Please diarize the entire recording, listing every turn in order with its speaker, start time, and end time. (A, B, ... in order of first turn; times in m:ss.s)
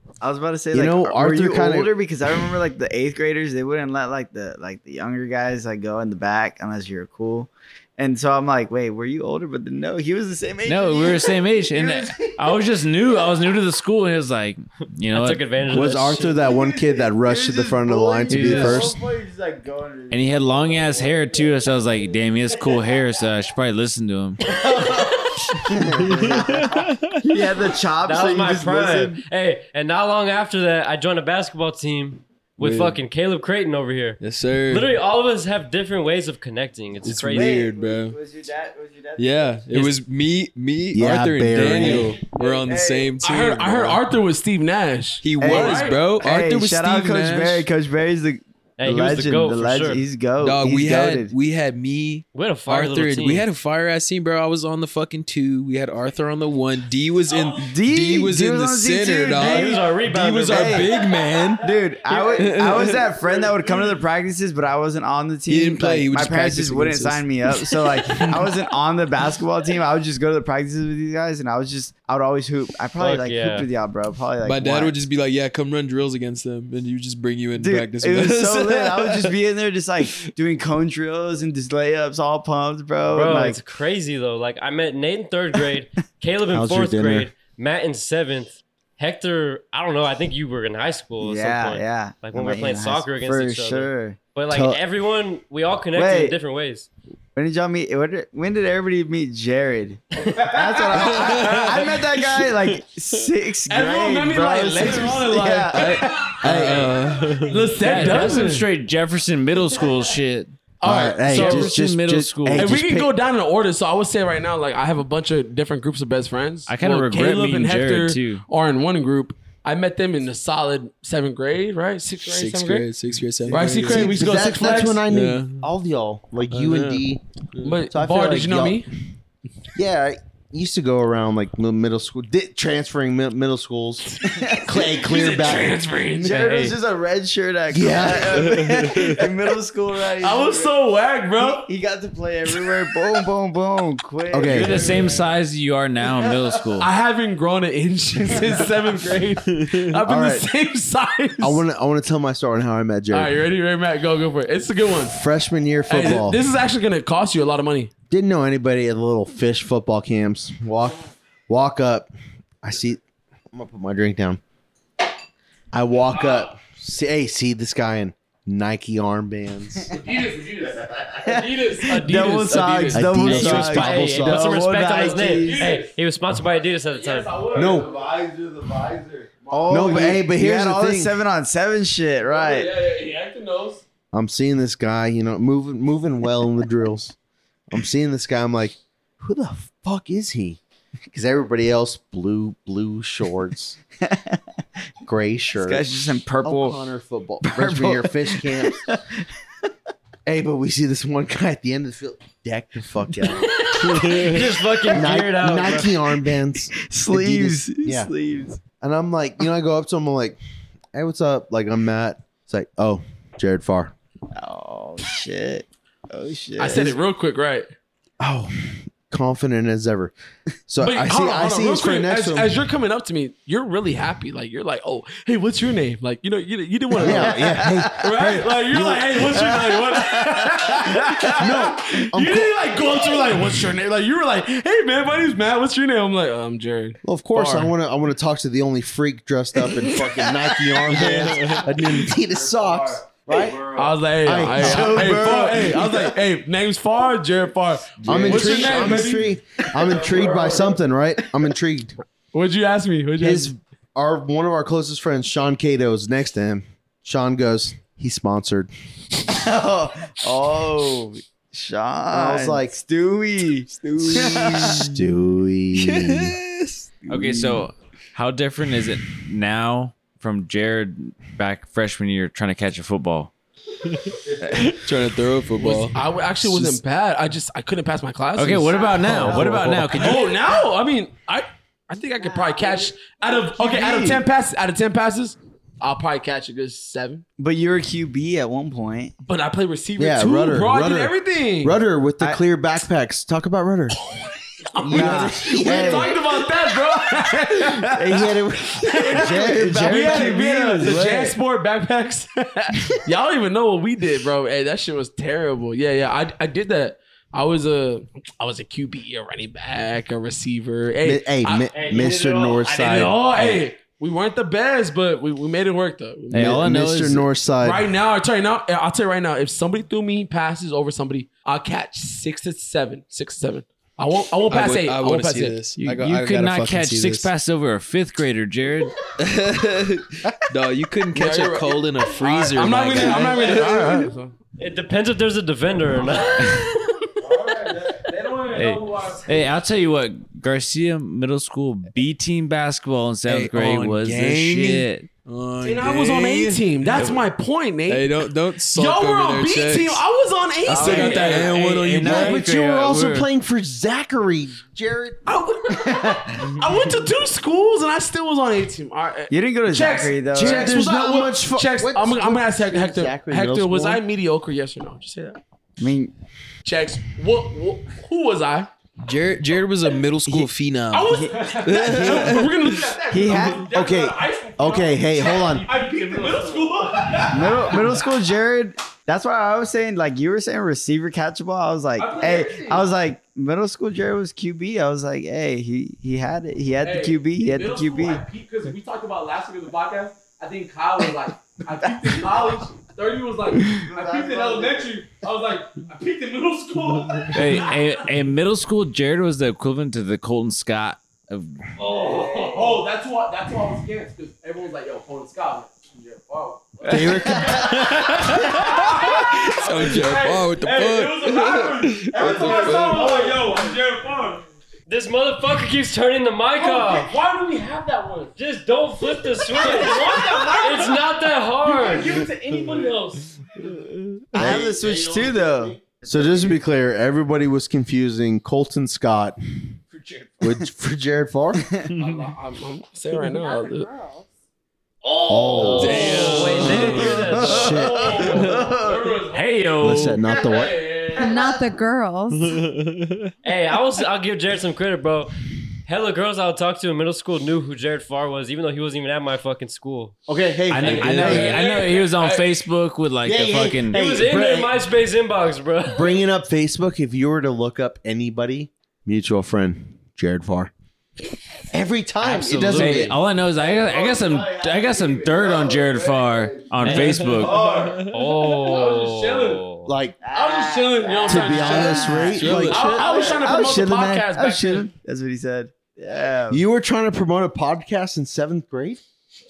0:00.2-0:12.5 A
0:00.7-0:01.9 B
0:10.6-0:15.4 C
0:15.1-0:16.4 D
0:15.7-0:19.0 B
0:16.3-0:21.2 A
0:18.3-0:18.9 C
0:20.1-0:24.6 C
0:24.5-0:29.2 A
0:25.9-0:26.2 B
0:26.0-0:27.2 E
0:28.0-0:37.6 D
0:32.6-0:33.0 E
0:34.2-0:34.9 E
0:37.0-0:38.2 E
0:37.3-0:39.7 A
0:39.2-0:44.0 E
0:40.9-0:42.2 B
0:41.6-0:43.2 A
0:43.2-0:46.1 F
0:45.2-0:47.7 E
0:45.4-0:51.3 A
0:48.8-0:50.0 D
0:50.4-1:01.6 E
0:52.3-0:53.4 D
0:57.5-1:01.0 A
0:59.3-1:00.9 D
1:01.6-1:15.0 A
1:02.3-1:03.0 E
1:05.5-1:08.6 E
1:13.0-1:13.7 D
1:14.4-1:19.4 E
1:17.6-1:23.6 A
1:23.1-1:36.9 D
1:26.5-1:27.3 B
1:31.2-1:34.2 A
1:34.5-1:34.8 B
1:35.9-1:36.4 A
1:37.4-1:46.7 A
1:40.9-1:43.2 E
1:43.7-1:46.4 F
1:45.7-1:47.7 E
1:46.4-1:46.9 B
1:47.4-1:48.7 F
1:47.8-1:50.6 C
1:47.9-1:48.4 D
1:50.8-1:51.8 F
1:50.8-1:53.1 B
1:51.2-1:52.8 C
1:52.5-2:02.9 F
1:56.7-1:58.4 C
2:02.2-2:04.2 E
2:03.5-2:05.0 F
2:03.5-2:07.2 B
2:05.0-2:05.6 E
2:06.5-2:07.0 E
2:07.6-2:08.9 F
2:07.9-2:08.8 B
2:09.7-2:15.8 B
2:14.2-2:14.9 A
2:14.7-2:16.4 F
2:16.2-2:20.7 A
2:16.3-2:16.8 C
2:17.7-2:18.6 B
2:18.4-2:19.2 E
2:20.2-2:21.7 F
2:21.4-2:25.3 A
2:24.3-2:24.8 B
2:24.5-2:26.9 C
2:24.8-2:25.2 F
2:26.8-2:31.6 F
2:29.5-2:29.8 E
2:30.0-2:30.5 B
2:31.4-2:33.4 B
2:33.1-2:35.2 F
2:35.0-2:36.4 B
2:35.9-2:37.9 F
2:38.1-2:42.1 B
2:42.6-2:43.0 B
2:43.5-2:44.4 B
2:45.7-2:49.9 B
2:49.9-2:53.4 F
2:51.1-2:55.7 A
2:52.9-2:54.6 B
2:53.3-2:57.4 D
2:55.0-2:55.9 F
2:56.8-2:58.0 F
2:57.5-2:57.9 B
2:57.5-2:59.5 G
2:59.5-3:00.0 F
2:59.5-3:01.2 B
2:59.6-3:02.7 A
3:02.2-3:03.8 F
3:04.1-3:07.1 B
3:07.7-3:10.6 B
3:11.1-3:13.8 B
3:14.0-3:14.4 A
3:15.0-3:15.9 B
3:15.5-3:16.8 A
3:16.4-3:18.8 B
3:17.4-3:19.2 A
3:20.2-3:23.9 B
3:23.2-3:24.3 A
3:23.7-3:26.0 D
3:24.9-3:28.1 B
3:26.8-3:28.6 A
3:28.8-3:30.4 B
3:30.9-3:33.9 B
3:34.3-3:37.0 A
3:36.6-3:37.7 F
3:38.2-3:40.1 B
3:40.7-3:42.5 B
3:40.8-3:57.0 F
3:47.0-3:48.0 A
3:47.0-3:49.3 B
3:49.2-3:51.5 A
3:51.4-3:52.6 B
3:57.0-4:03.7 B
4:00.9-4:01.6 E
4:02.4-4:03.9 G
4:03.7-4:10.6 F
4:04.2-4:06.1 B
4:04.5-4:06.0 A
4:08.0-4:12.0 B
4:08.3-4:09.0 G
4:09.8-4:10.6 G
4:12.3-4:13.5 F
4:13.2-4:18.7 B
4:19.3-4:24.8 A
4:22.1-4:22.8 B
4:23.7-4:25.0 E
4:24.0-4:26.4 B
4:25.8-4:27.1 E
4:27.1-4:33.3 C
4:33.8-4:36.8 E
4:35.6-4:47.2 F
4:38.4-4:40.4 C
4:39.0-4:40.2 E
4:39.0-4:39.4 A
4:42.2-4:44.2 A
4:47.4-4:49.1 A
4:49.2-4:51.8 F
4:50.0-4:54.0 B
4:54.7-4:58.0 F
4:54.8-4:56.4 B
4:54.9-4:56.3 A
4:57.9-5:01.3 A
4:58.0-5:01.3 B
4:58.8-5:11.8 F
5:11.0-5:13.6 B
5:11.7-5:13.1 D
5:12.7-5:16.7 F
5:16.3-5:17.9 B
5:16.3-5:17.2 C
5:17.6-5:25.6 F
5:24.5-5:27.3 E
5:25.8-5:29.0 C
5:29.2-5:34.1 E
5:31.1-5:34.3 F
5:34.6-5:36.8 D
5:37.2-5:39.5 F
5:38.5-5:45.1 C
5:43.2-5:46.7 E
5:45.6-5:51.5 F
5:47.0-5:47.2 C
5:47.9-5:50.0 E
5:50.6-5:52.4 E
5:50.7-5:51.6 A
5:51.3-5:53.3 C
5:52.0-5:55.2 B
5:55.2-6:05.4 F
5:59.3-6:00.9 A
6:00.3-6:04.0 B
6:05.8-6:06.1 A
6:06.6-6:08.7 F
6:09.0-6:12.9 E
6:10.9-6:18.1 F
6:11.1-6:12.3 A
6:13.0-6:13.7 A
6:13.6-6:15.7 B
6:17.3-6:28.2 A
6:22.0-6:22.9 F
6:26.8-6:38.1 F
6:33.7-6:34.8 A
6:37.3-6:41.7 C
6:41.8-6:54.4 F
6:42.0-6:42.6 D
6:46.9-6:53.0 E
6:46.9-6:47.5 B
6:52.2-6:53.6 G
6:54.9-6:57.1 D
6:56.6-6:58.3 F
6:58.4-7:02.2 D
6:59.0-7:05.6 F
7:04.3-7:06.6 A
7:04.3-7:04.9 B
7:06.0-7:09.7 B
7:09.9-7:10.4 F
7:10.4-7:11.7 B
7:11.8-7:14.1 F
7:13.4-7:13.8 H
7:15.0-7:21.6 F
7:15.3-7:16.7 B
7:15.5-7:18.1 D
7:15.7-7:17.4 E
7:16.8-7:19.2 A
7:17.3-7:18.2 B
7:19.3-7:20.3 C
7:19.8-7:20.8 B
7:21.1-7:22.6 H
7:22.3-7:23.3 E
7:23.4-7:25.3 D
7:25.8-7:30.1 D
7:30.3-7:31.6 B
7:30.7-7:34.0 C
7:30.8-7:32.5 F
7:33.2-7:34.8 B
7:33.9-7:36.2 D
7:35.8-7:40.7 B
7:41.7-7:43.2 B
7:42.2-7:47.7 C
7:42.6-7:43.2 D
7:43.6-7:46.6 G
7:46.8-7:47.3 D
7:46.9-7:48.3 E
7:47.2-7:49.6 F
7:47.6-7:48.0 G
7:48.0-7:49.9 D
7:49.8-7:50.2 B
7:50.2-7:56.6 A
7:50.3-7:54.9 F
7:51.2-7:53.3 B
7:51.6-7:52.8 E
7:56.5-7:59.0 B